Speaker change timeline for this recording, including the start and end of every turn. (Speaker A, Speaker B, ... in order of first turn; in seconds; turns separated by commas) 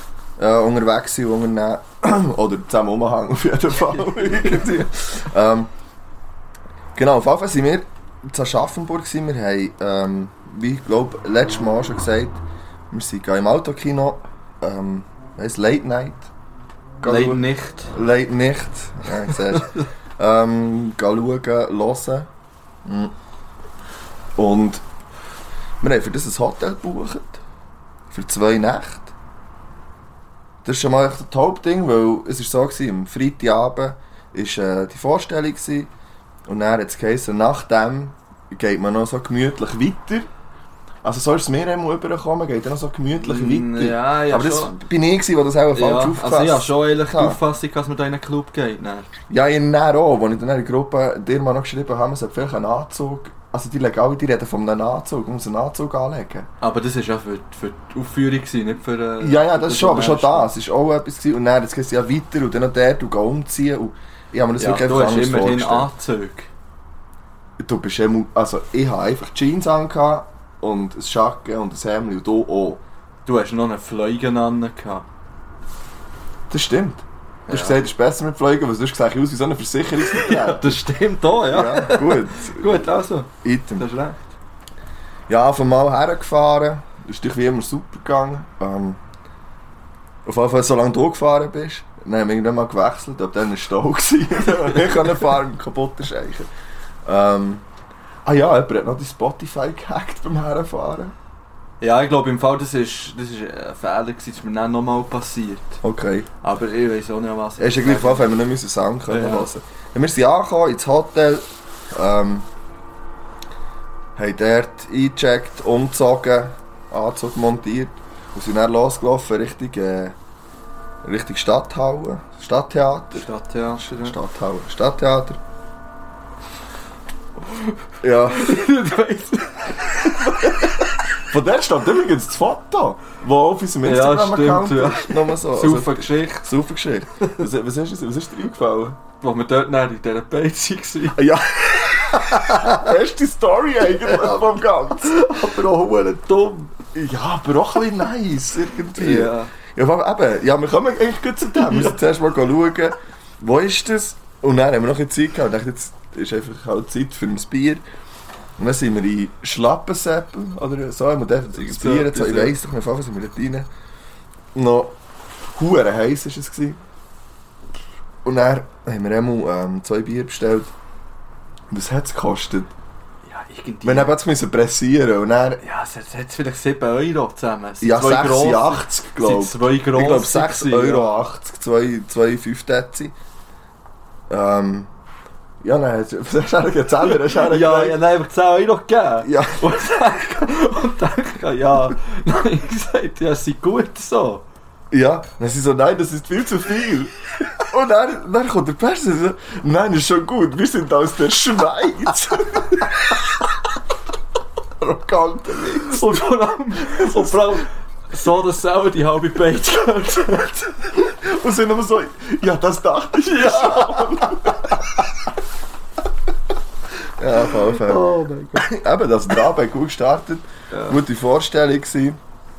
Speaker A: 0.4-5.7, Speaker B: 3.8-4.7, Speaker A: 6.9-16.3, Speaker A: 17.0-22.3, Speaker B: 17.0-17.9, Speaker B: 19.3-19.8, Speaker A: 22.8-23.1, Speaker A: 24.4-24.8, Speaker A: 25.8-27.4, Speaker A: 28.1-29.1, Speaker A: 30.6-35.9, Speaker A: 36.5-40.3, Speaker A: 41.0-47.4, Speaker B: 43.2-44.8, Speaker B: 45.7-49.1, Speaker A: 49.3-56.5, Speaker B: 56.6-60.5, Speaker A: 59.2-65.9, Speaker B: 64.6-66.5, Speaker A: 67.6-72.8, Speaker B: 73.2-75.1, Speaker A: 76.5-80.8, Speaker B: 77.5-77.8, Speaker B: 80.0-84.3, Speaker A: 81.4-82.9, Speaker A: 83.4-83.9, Speaker A: 85.3-89.0, Speaker A: 90.2-96.5, Speaker A: 97.0-97.6, Speaker A: 98.2-101.1, Speaker B: 101.8-105.8, Speaker A: 105.8-106.3, Speaker B: 106.4-108.4, Speaker A: 107.6-112.5, Speaker B: 109.1-109.5, Speaker A: 114.2-120.2, Speaker A: 121.0-125.4, Speaker B: 123.1-124.2, Speaker B: 127.4-130.9, Speaker A: 128.0-128.6, Speaker A: 131.2-139.0, Speaker B: 133.8-136.4, Speaker B: 139.2-142.9, Speaker A: 141.2-145.2, Speaker B: 145.0-146.7, Speaker A: 146.9-157.8, Speaker B: 148.9-149.5, Speaker B: 151.5-152.0, Speaker A: 158.6-163.7, Speaker B: 161.6-162.6, Speaker A: 164.5-164.9, Speaker A: 165.5-166.8, Speaker A: 168.2-170.7, Speaker A: 171.7-172.7, Speaker B: 173.2-174.1, Speaker A: 173.8-175.6, Speaker B: 175.6-181.1, Speaker A: 177.8-183.1, Speaker A: 184.3-184.9, Speaker A: 185.6-188.0, Speaker B: 187.1-194.4, Speaker A: 189.2-189.6, Speaker A: 194.9-203.3, Speaker A: 204.8-206.2, Speaker B: 205.8-211.0, Speaker A: 206.8-207.5, Speaker A: 210.9-215.0, Speaker B: 213.2-214.7, Speaker A: 217.2-222.2, Speaker B: 217.4-218.7, Speaker B: 220.7-221.0